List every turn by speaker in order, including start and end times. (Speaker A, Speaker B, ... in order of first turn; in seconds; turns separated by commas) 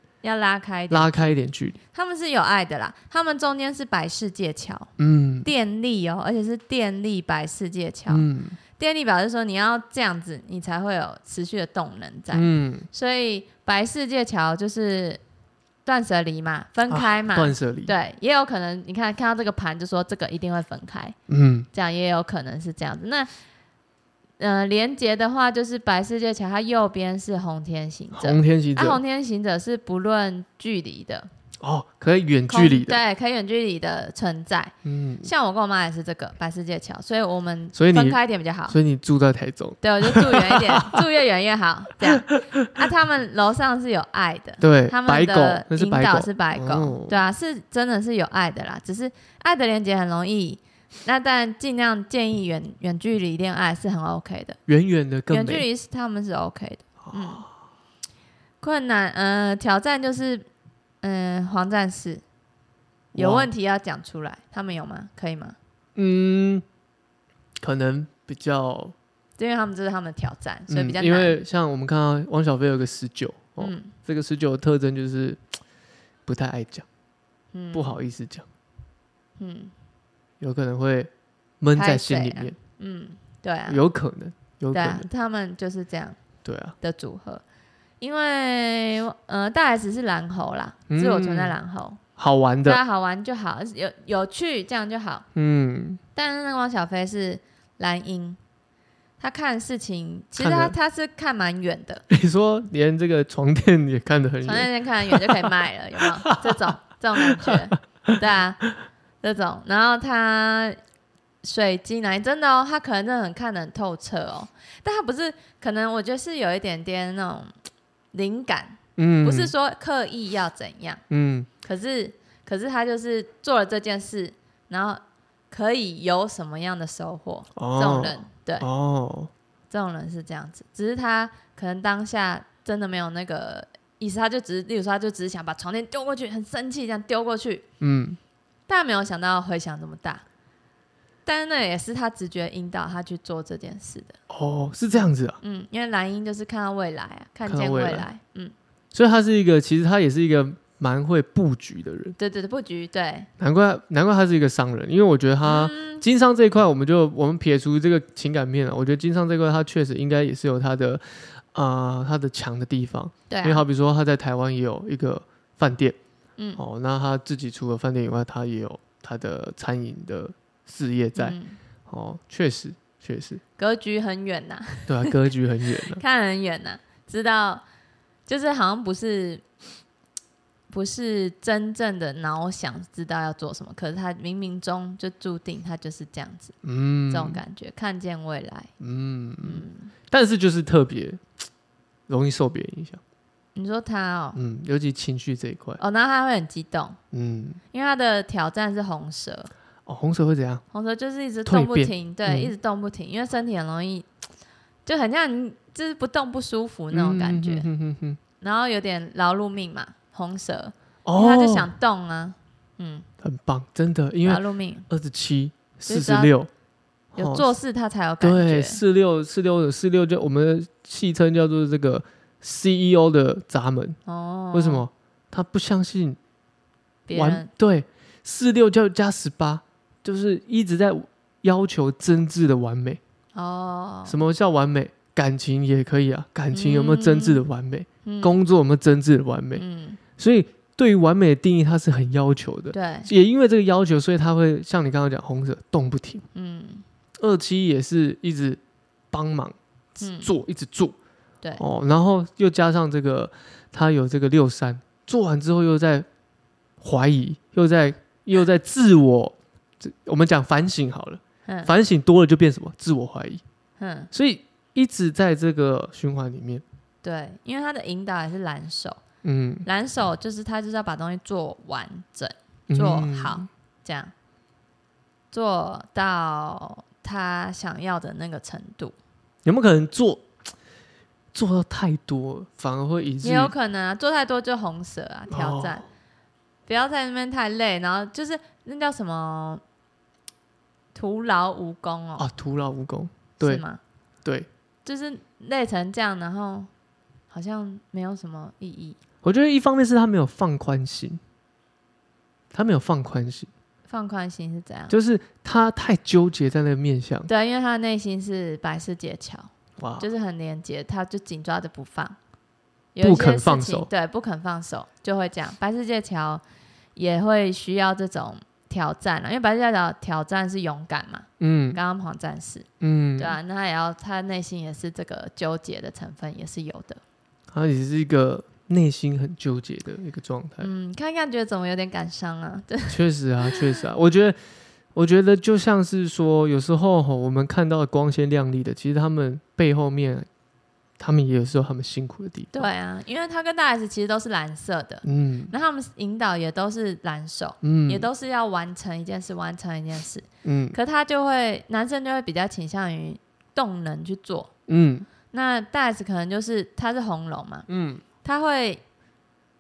Speaker A: 0.2-1.3, Speaker B: 0.9-1.8, Speaker A: 1.9-4.9, Speaker B: 5.0-5.5, Speaker A: 5.4-8.3, Speaker B: 8.1-8.6, Speaker A: 8.8-15.2, Speaker B: 12.3-12.9, Speaker A: 15.8-21.2, Speaker B: 16.9-17.9, Speaker B: 21.3-21.7, Speaker A: 21.7-23.3, Speaker A: 24.4-31.3, Speaker B: 28.1-29.0, Speaker B: 31.6-33.0, Speaker A: 32.5-38.8, Speaker B: 34.8-35.3, Speaker B: 37.8-41.0, Speaker A: 39.8-54.6, Speaker B: 42.1-42.8, Speaker B: 44.6-47.2, Speaker B: 54.7-55.7, Speaker A: 55.3-57.4, Speaker B: 57.0-57.5, Speaker A: 58.6-60.5, Speaker A: 61.0-62.2, Speaker B: 63.1-63.5, Speaker A: 63.1-65.6, Speaker B: 66.0-66.6, Speaker B: 67.6-68.9, Speaker A: 69.4-71.4, Speaker B: 70.7-75.4, Speaker A: 73.6-73.9, Speaker B: 76.3-76.9, Speaker A: 77.5-78.0, Speaker B: 77.7-78.5, Speaker A: 79.4-79.7, Speaker B: 80.4-81.1, Speaker B: 81.6-82.6, Speaker A: 81.8-83.8, Speaker B: 83.7-85.1, Speaker A: 84.7-86.2, Speaker B: 86.4-86.8, Speaker A: 86.8-87.4, Speaker A: 88.0-92.0, Speaker B: 90.9-91.6, Speaker B: 92.2-92.8, Speaker A: 92.6-95.2, Speaker B: 95.3-96.0, Speaker A: 96.2-98.4, Speaker A: 99.2-102.0, Speaker B: 100.4-100.8, Speaker B: 102.1-105.5, Speaker A: 104.4-108.6, Speaker B: 106.0-108.2, Speaker A: 109.2-110.8, Speaker A: 111.4-117.5, Speaker A: 118.1-121.0, Speaker B: 119.0-119.5, Speaker B: 121.1-121.5, Speaker A: 121.6-128.7, Speaker B: 127.6-129.3, Speaker A: 129.7-137.7, Speaker B: 137.8-138.2, Speaker A: 138.7-140.2, Speaker A: 141.2-144.2, Speaker B: 144.3-145.4, Speaker A: 144.9-148.5, Speaker B: 147.5-148.1, Speaker B: 148.9-152.2, Speaker A: 152.2-153.3, Speaker B: 153.4-166.0, Speaker A: 155.4-156.0, Speaker A: 163.3-163.7, Speaker B: 166.6-171.4, Speaker A: 171.2-171.6, Speaker B: 171.9-173.4, Speaker A: 173.6-175.1, Speaker B: 174.9-176.0, Speaker A: 175.7-177.6, Speaker A: 178.3-179.4, Speaker A: 180.7-186.6, Speaker B: 186.6-187.4, Speaker A: 187.1-188.7, Speaker B: 188.8-191.2, Speaker A: 189.4-189.9, Speaker B: 192.1-193.0, Speaker A: 193.6-194.4, Speaker B: 194.3-195.8, Speaker A: 195.8-197.0, Speaker B: 197.1-197.6, Speaker A: 197.7-199.5, Speaker B: 199.9-200.6, Speaker A: 200.7-204.1, Speaker B: 201.5-202.5, Speaker A: 204.9-207.7, Speaker B: 206.9-208.2, Speaker A: 208.4-213.1, Speaker B: 211.1-211.7, Speaker B: 213.2-216.5, Speaker A: 214.2-214.9, Speaker A: 215.9-216.3, Speaker B: 217.2-217.5, Speaker A: 217.2-218.8, Speaker B: 218.2-224.0, Speaker A: 224.1-224.9, Speaker B: 224.5-226.2, Speaker A: 227.1-227.5, Speaker B: 227.1-233.0, Speaker A: 233.3-234.2, Speaker B: 234.1-239.6, Speaker A: 236.5-237.4, Speaker A: 238.1-238.4, Speaker A: 239.6-240.0, Speaker B: 240.2-246.3, Speaker A: 242.7-243.1, Speaker A: 246.3-246.8, Speaker B: 247.2-248.6, Speaker B: 249.1-251.0, Speaker A: 250.0-250.3, Speaker B: 251.6-256.1, Speaker B: 256.8-263.4, Speaker A: 261.5-261.7, Speaker A: 263.8-264.1, Speaker B: 264.1-266.6, Speaker A: 267.0-269.0, Speaker B: 269.2-269.7, Speaker A: 269.6-274.1, Speaker B: 272.7-273.5, Speaker A: 275.3-278.9, Speaker B: 279.4-280.2, Speaker B: 281.3-283.5, Speaker A: 283.2-285.9, Speaker B: 285.3-285.8, Speaker A: 286.7-289.6, Speaker A: 290.9-292.3, Speaker B: 292.2-293.6, Speaker A: 293.4-293.8, Speaker A: 294.9-296.7, Speaker A: 297.3-299.0, Speaker B: 299.2-301.2, Speaker B: 302.5-303.5, Speaker A: 303.9-304.9, Speaker B: 304.9-307.3, Speaker A: 307.3-312.2, Speaker B: 309.8-310.1, Speaker A: 312.9-316.4, Speaker B: 313.0-313.9, Speaker A: 316.9-322.7, Speaker B: 321.4-321.8, Speaker B: 322.8-323.4, Speaker A: 323.2-327.0, Speaker B: 327.5-330.7, Speaker A: 330.6-333.8, Speaker B: 332.9-334.4, Speaker B: 334.9-340.3, Speaker B: 341.0-342.7, Speaker A: 342.5-354.5, Speaker B: 345.0-345.5, Speaker B: 347.6-348.1, Speaker B: 350.4-350.8, Speaker B: 354.7-355.1, Speaker A: 355.3-357.7, Speaker B: 357.7-358.0, Speaker A: 358.2-358.8